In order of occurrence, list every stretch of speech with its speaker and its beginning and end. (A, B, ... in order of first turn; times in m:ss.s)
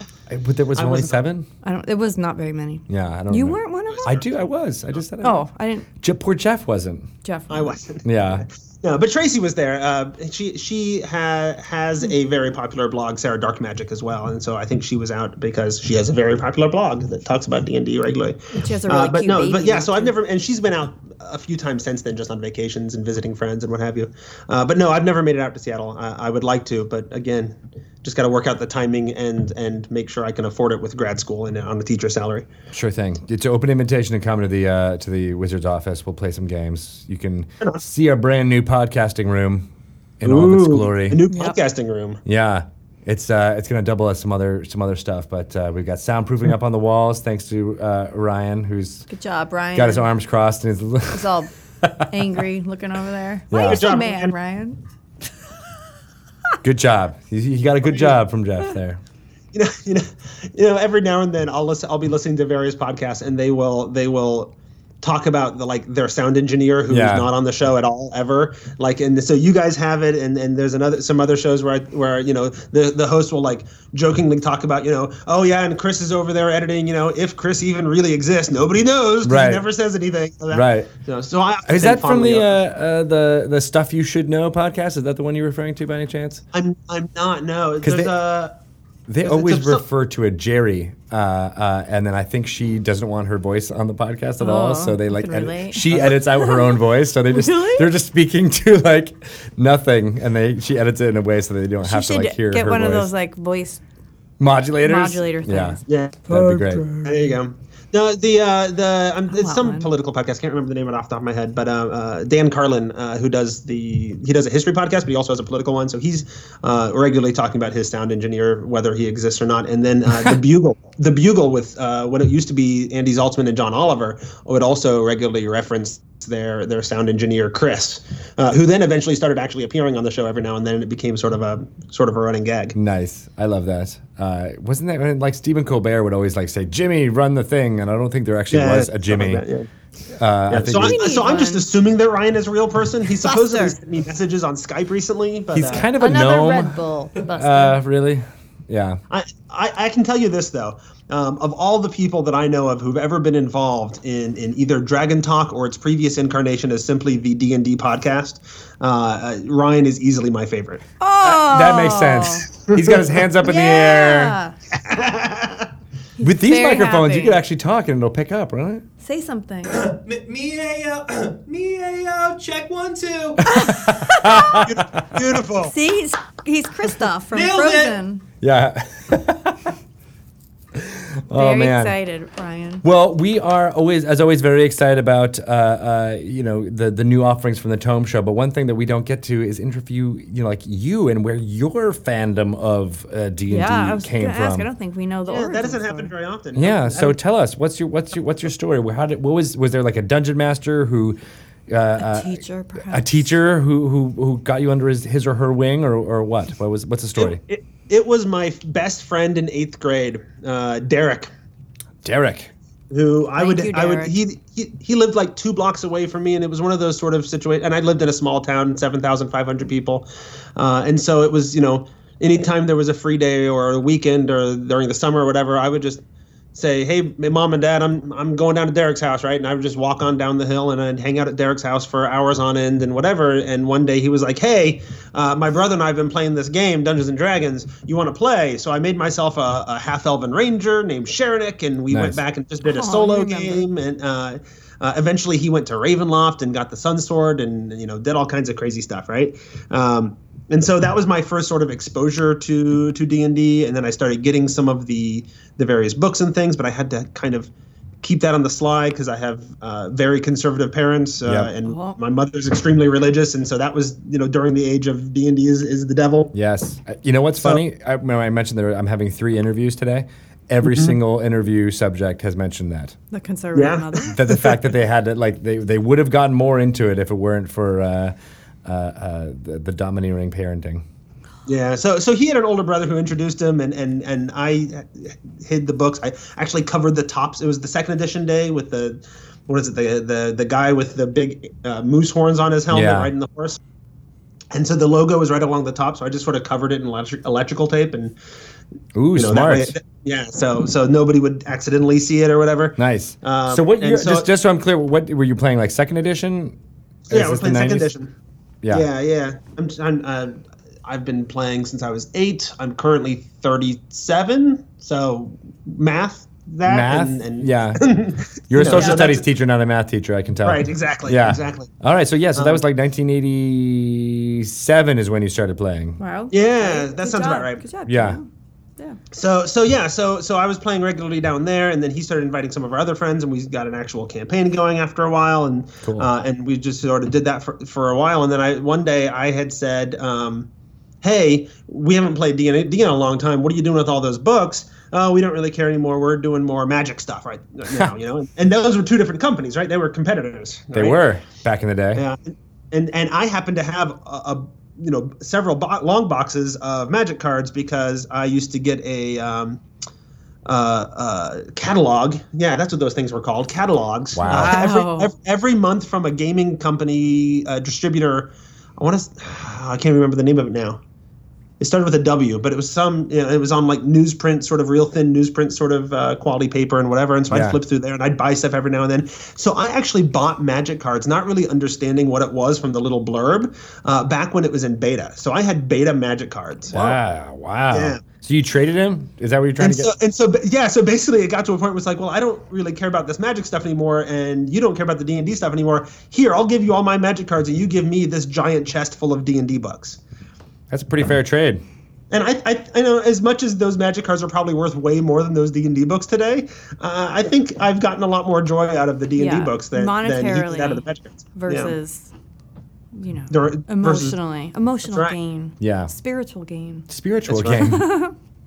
0:00.3-0:01.5 A
0:00.8-0:01.2 B
0:01.6-0:04.2 C
0:02.9-0:05.5 A
0:04.0-0:04.3 B
0:05.2-0:05.9 C
0:06.0-0:07.1 A
0:07.2-0:07.8 C
0:07.5-0:32.5 B
0:08.0-0:08.4 A
0:18.5-0:20.1 C
0:32.7-0:39.7 A
0:40.2-0:41.2 A
0:40.2-0:42.2 B
0:41.3-0:41.6 C
0:42.3-0:49.1 A
0:49.1-0:50.1 C
0:49.8-0:51.3 A
0:51.1-0:51.5 C
0:52.1-0:54.8 C
0:53.5-0:53.8 A
0:53.6-0:54.3 B
0:56.6-0:59.0 A
0:57.8-0:58.2 B
0:59.5-1:22.5 B
1:06.9-1:07.3 A
1:19.2-1:19.6 A
1:20.5-1:20.9 A
1:21.7-1:26.4 A
1:26.5-1:28.5 B
1:27.8-1:28.1 A
1:29.1-1:43.1 A
1:29.2-1:29.8 B
1:34.4-1:35.8 C
1:35.9-1:36.2 B
1:36.4-1:37.9 C
1:41.8-1:43.8 C
1:44.4-1:46.9 A
1:44.8-1:45.8 C
1:45.9-2:12.8 B
1:49.3-1:49.9 C
2:12.8-2:19.4 A
2:18.5-2:19.7 B
2:20.2-2:21.0 A
2:20.5-2:25.9 B
2:20.7-2:21.7 C
2:23.2-2:23.8 C
2:25.5-2:26.8 A
2:26.0-2:27.8 C
2:27.3-2:29.0 A
2:29.1-2:40.8 B
2:41.0-2:42.5 C
2:41.2-2:44.4 A
2:42.6-2:43.0 B
2:43.4-2:44.6 C
2:44.7-2:45.7 B
2:46.2-2:47.4 C
2:46.2-2:48.8 A
2:49.0-2:49.8 C
2:49.7-2:53.4 D
2:53.4-2:55.1 A
2:53.7-2:54.6 C
2:54.6-2:55.8 B
2:55.6-2:58.2 C
2:57.3-2:58.0 D
2:58.4-2:59.7 A
3:00.8-3:02.0 A
3:01.3-3:02.8 C
3:02.8-3:14.7 A
3:13.5-3:16.1 C
3:15.3-3:17.2 B
3:16.6-3:21.2 A
3:21.7-3:27.4 A
3:22.0-3:23.3 C
3:27.2-3:31.3 B
3:32.0-3:32.5 A
3:32.9-3:46.0 B
3:33.4-3:34.1 C
3:46.5-4:17.5 B
4:01.9-4:02.2 A
4:02.6-4:03.6 C
4:18.0-4:26.3 B
4:21.2-4:21.5 A
4:21.6-4:22.0 C
4:26.3-4:33.0 A
4:30.6-4:31.0 B
4:33.1-4:34.2 C
4:33.6-4:34.6 B
4:34.1-4:40.8 A
4:41.5-4:53.6 B
4:52.7-4:53.1 A
4:54.5-4:58.2 B
4:59.0-4:59.7 A
4:59.2-5:04.3 B
5:02.8-5:06.6 A
5:07.1-5:08.1 B
5:07.1-5:07.9 A
5:08.6-5:08.9 A
5:08.7-5:19.3 B
5:16.6-5:17.8 A
5:18.5-5:26.0 A
5:18.7-5:19.0 C
5:20.4-5:21.7 B
5:22.4-5:22.6 B
5:26.0-5:28.3 C
5:26.3-5:27.7 B
5:27.9-5:28.2 A
5:29.1-5:40.5 B
5:41.0-5:51.0 B
5:50.7-5:52.0 A
5:52.0-5:59.6 B
6:00.5-6:10.8 B
6:04.1-6:04.6 A
6:04.3-6:05.1 C
6:11.6-6:27.0 B
6:17.3-6:17.6 A
6:26.7-6:29.9 A
6:27.7-6:28.0 B
6:29.6-6:40.0 B
6:40.7-6:41.6 A
6:42.1-6:51.8 B
6:49.2-6:52.1 C
6:53.0-6:56.9 C
6:53.3-6:54.2 B
6:54.9-6:55.2 B
6:55.6-6:55.9 A
6:56.9-6:57.9 A
6:57.3-6:57.7 B
6:57.5-6:58.1 C